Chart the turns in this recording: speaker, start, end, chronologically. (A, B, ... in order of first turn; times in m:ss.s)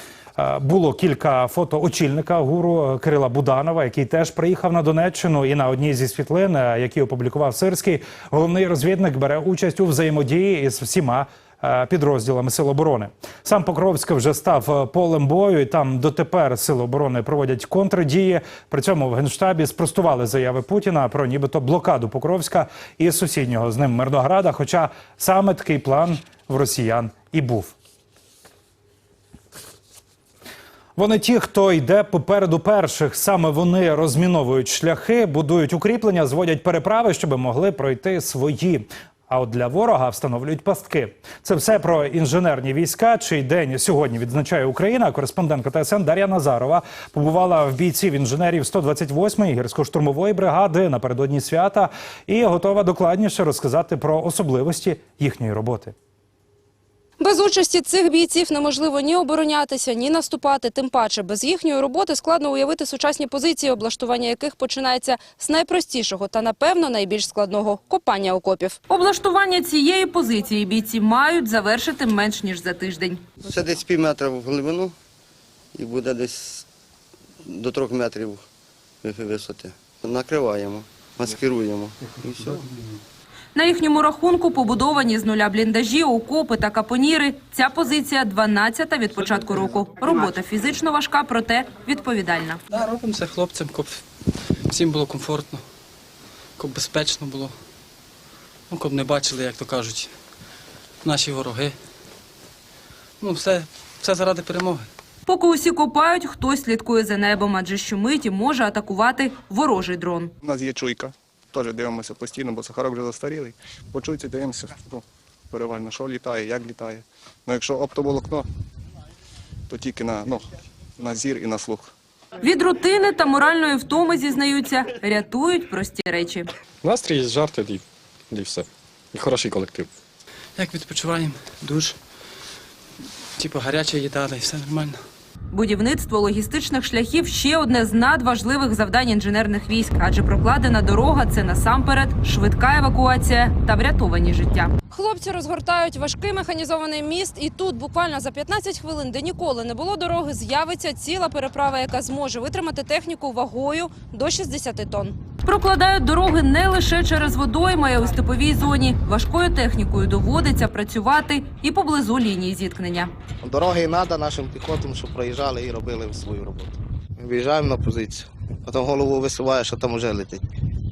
0:00.4-0:27.7 A
0:31.0-0:55.9 A
0:57.2-1:13.3 B
1:13.4-1:14.9 C
1:15.7-1:16.6 C
1:17.4-1:18.4 C
1:19.0-1:22.6 C
1:23.5-1:32.6 B
1:32.7-1:34.0 D
1:34.7-1:35.6 D
1:36.6-1:37.5 D
1:38.7-1:40.1 D
1:41.0-1:41.7 D
1:43.2-1:44.7 D
1:45.3-1:50.3 B
1:50.4-1:58.4 E
1:59.7-2:00.4 E
2:01.0-2:01.9 E
2:02.4-2:06.5 B
2:06.8-2:09.9 F
2:10.6-2:11.9 D
2:13.4-2:14.9 D
2:15.5-2:43.1 B
2:43.4-2:50.4 G